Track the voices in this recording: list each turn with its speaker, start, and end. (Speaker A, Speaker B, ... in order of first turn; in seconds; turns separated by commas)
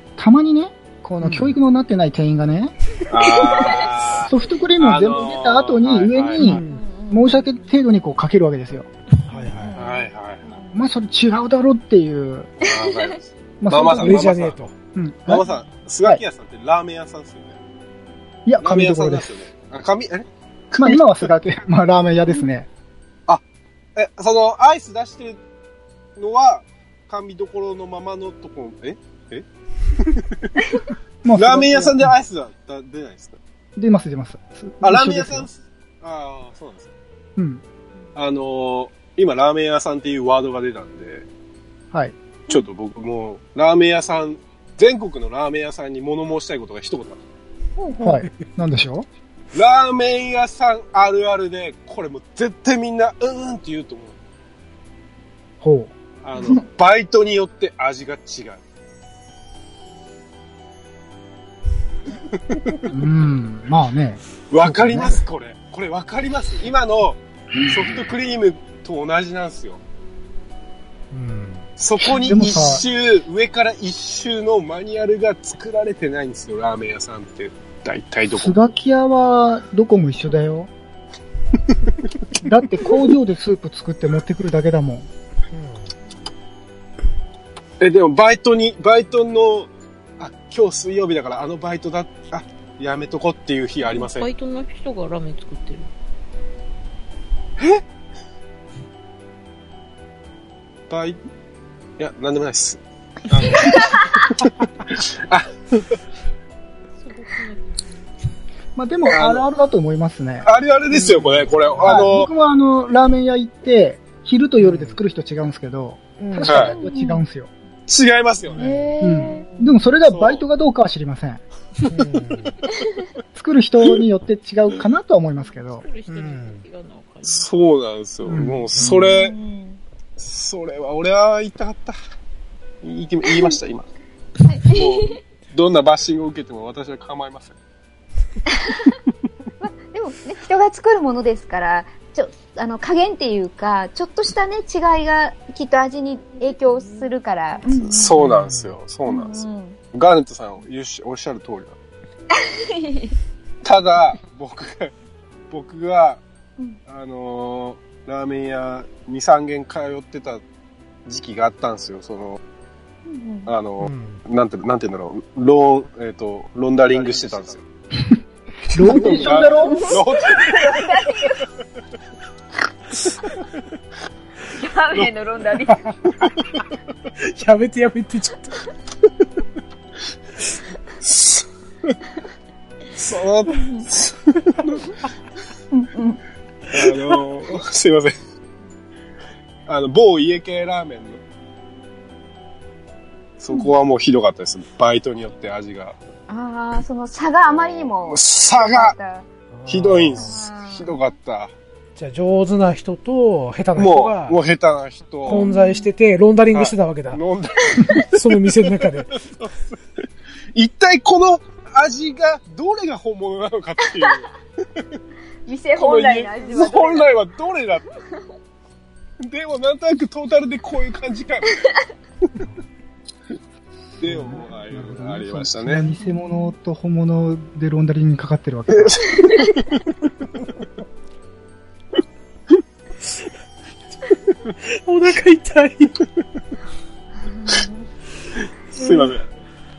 Speaker A: 0.2-2.7, Speaker B: 1.2-1.5, Speaker C: 3.1-6.5, Speaker D: 3.2-4.0, Speaker A: 4.2-8.9, Speaker B: 6.4-6.8, Speaker D: 6.4-7.5, Speaker B: 9.2-9.8, Speaker D: 9.3-10.8, Speaker C: 9.7-10.4, Speaker A: 10.7-12.5, Speaker C: 12.6-14.6, Speaker D: 12.6-13.1, Speaker A: 13.6-14.3, Speaker B: 13.9-14.7, Speaker A: 14.9-15.5, Speaker C: 15.2-17.6, Speaker A: 18.4-19.3, Speaker C: 18.6-21.0, Speaker A: 20.8-22.7, Speaker C: 23.9-25.4, Speaker C: 26.1-30.5, Speaker A: 31.2-32.1, Speaker C: 31.3-33.4, Speaker A: 33.8-35.5, Speaker C: 34.8-36.9, Speaker A: 37.4-37.6, Speaker C: 38.1-41.2, Speaker C: 42.5-47.2, Speaker A: 48.0-49.1, Speaker B: 48.0-48.4, Speaker C: 49.5-54.1, Speaker A: 55.6-55.9, Speaker C: 56.2-58.6, Speaker D: 56.4-56.6, Speaker C: 62.3-62.8, Speaker A: 62.9-65.2, Speaker C: 64.5-69.8, Speaker B: 71.1-71.7, Speaker C: 71.8-78.6, Speaker A: 72.2-72.8, Speaker A: 78.3-80.7, Speaker A: 82.4-85.1, Speaker B: 85.5-85.9, Speaker C: 87.8-94.3, Speaker E: 93.8-95.9, Speaker C: 97.6-97.8, Speaker C: 100.9-101.2, Speaker C: 102.0-106.0, Speaker D: 103.6-104.1, Speaker E: 107.0-107.8, Speaker A: 108.8-110.5, Speaker C: 109.1-109.5, Speaker C: 110.4-112.3, Speaker B: 110.9-112.1, Speaker A: 111.8-117.5, Speaker B: 114.6-115.0, Speaker B: 116.2-116.8, Speaker C: 116.5-116.8, Speaker D: 116.7-117.2, Speaker C: 117.9-118.7, Speaker B: 118.5-118.9, Speaker D: 118.6-119.7, Speaker A: 119.0-121.4, Speaker E: 119.0-119.5, Speaker C: 120.1-120.4, Speaker B: 121.9-122.6, Speaker A: 123.3-125.8, Speaker E: 125.5-127.5, Speaker B: 126.1-126.6, Speaker C: 127.2-129.3, Speaker A: 128.2-128.7, Speaker B: 128.7-129.1, Speaker D: 129.0-129.8, Speaker C: 130.2-132.0, Speaker C: 132.8-133.9, Speaker D: 134.4-135.2, Speaker C: 134.7-137.5, Speaker D: 138.5-138.9, Speaker D: 139.6-148.2, Speaker C: 147.7-151.8, Speaker B: 148.2-148.7, Speaker D: 149.1-149.8, Speaker D: 152.3-153.2, Speaker C: 153.6-154.9, Speaker C: 155.5-156.2, Speaker C: 156.9-160.4, Speaker C: 161.0-162.4, Speaker D: 163.1-163.5, Speaker C: 163.4-167.6, Speaker B: 163.8-164.2, Speaker A: 168.7-170.0, Speaker B: 168.7-169.3, Speaker C: 168.9-170.9, Speaker D: 169.0-171.4, Speaker D: 174.5-175.9, Speaker B: 177.2-178.6, Speaker C: 181.0-181.9, Speaker C: 182.9-184.9, Speaker D: 183.6-183.8, Speaker D: 185.7-186.2, Speaker C: 186.7-188.2, Speaker C: 189.7-191.2, Speaker C: 193.4-196.0, Speaker D: 196.3-199.2, Speaker C: 197.5-198.9, Speaker B: 199.5-200.4, Speaker C: 199.7-201.5, Speaker D: 200.2-201.0, Speaker B: 201.9-204.4, Speaker C: 203.8-205.5, Speaker B: 205.2-207.2, Speaker D: 205.3-205.9, Speaker C: 206.5-208.1, Speaker B: 207.9-209.2, Speaker C: 209.3-209.6, Speaker C: 210.5-214.8, Speaker D: 215.4-217.1, Speaker C: 215.7-217.8, Speaker C: 219.2-221.6, Speaker C: 224.0-225.9, Speaker A: 224.0-229.1, Speaker D: 225.9-226.5, Speaker C: 228.7-229.8, Speaker B: 234.8-235.9, Speaker D: 237.2-237.8, Speaker C: 238.7-239.2, Speaker D: 238.8-239.1